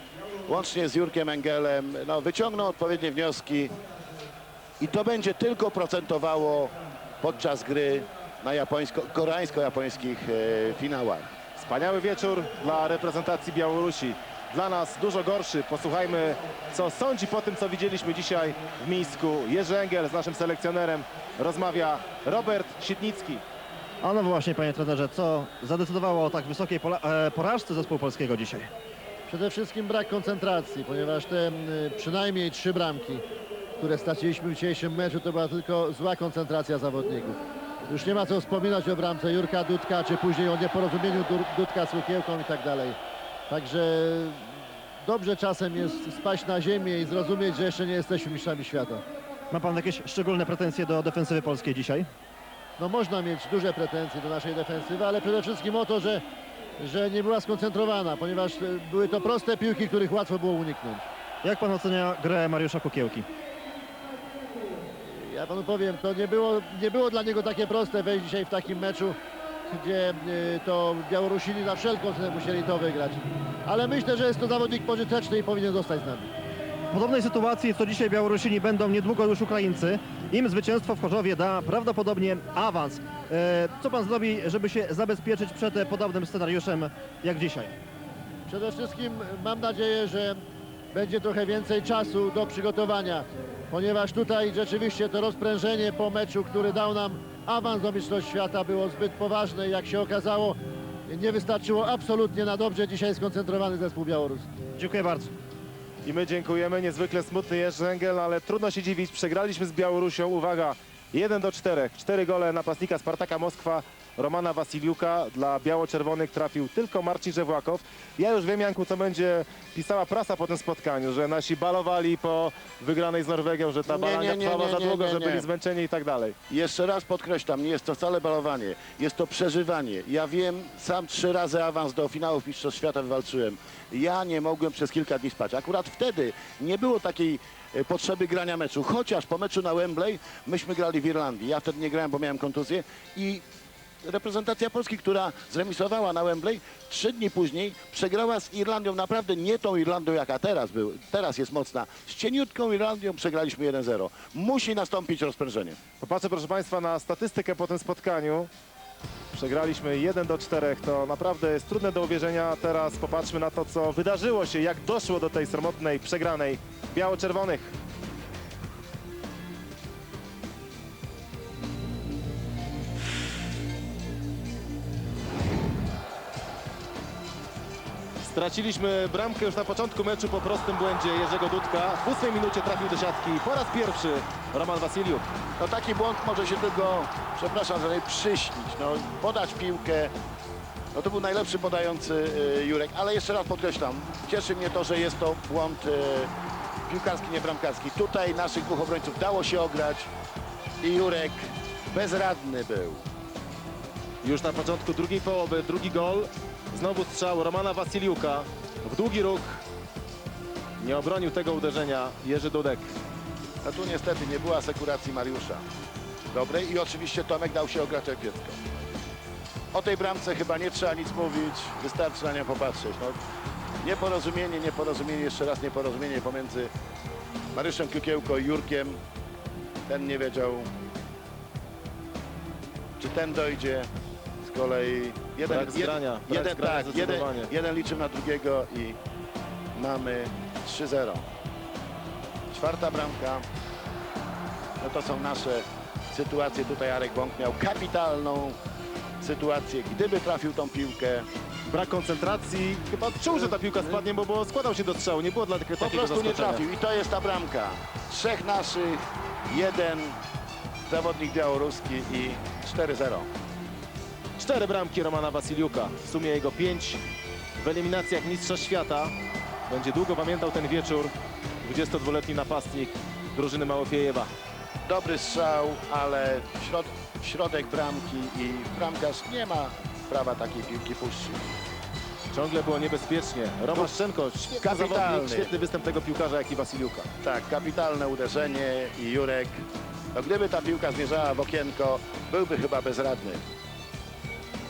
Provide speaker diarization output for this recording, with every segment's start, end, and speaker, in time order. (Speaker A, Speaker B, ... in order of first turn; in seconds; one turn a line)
Speaker A: 0.5-3.7
Speaker A: 4.8-11.3
Speaker B: 11.6-23.4
Speaker C: 24.0-28.7
Speaker D: 29.3-33.2
Speaker D: 33.8-43.0
Speaker D: 43.5-44.4
Speaker D: 45.0-49.0
Speaker C: 49.5-52.1
Speaker D: 52.8-56.2
Speaker D: 56.8-61.1
Speaker C: 61.4-63.3
Speaker D: 65.0-69.2
Speaker D: 69.7-76.3
Speaker C: 76.9-87.8
Speaker D: 88.5-90.4
Speaker D: 90.9-104.5
Speaker C: 104.8-105.3
Speaker B: 106.0-126.4
Speaker A: 123.9-125.5
Speaker A: 126.5-143.4
Speaker A: 144.0-155.8
Speaker B: 156.0-158.5
Speaker B: 159.3-167.7
Speaker B: 178.2-185.3
Speaker A: 185.6-190.1
Speaker A: 190.9-196.3
Speaker A: 196.9-200.1
Speaker A: 200.8-203.0
Speaker B: 204.2-209.6
Speaker B: 210.8-212.9
Speaker A: 213.6-215.6
Speaker A: 216.3-218.6
Speaker A: 219.7-223.2
Speaker A: 223.8-226.7
Speaker A: 227.5-229.0
Speaker A: 229.9-230.7
Speaker A: 233.0-233.9
Speaker A: 234.4-239.0
Speaker B: 235.4-237.5
Speaker A: 239.8-241.2
Speaker A: 242.5-243.4
Speaker A: 244.8-248.6
Speaker A: 249.2-251.3
Speaker B: 251.7-256.6
Speaker A: 255.8-260.2
Speaker A: 260.9-263.3
Speaker B: 264.4-267.0
Speaker B: 267.6-269.1
Speaker B: 269.7-274.3
Speaker A: 274.9-281.5
Speaker B: 282.3-287.1
Speaker A: 284.6-285.5
Speaker A: 287.2-293.4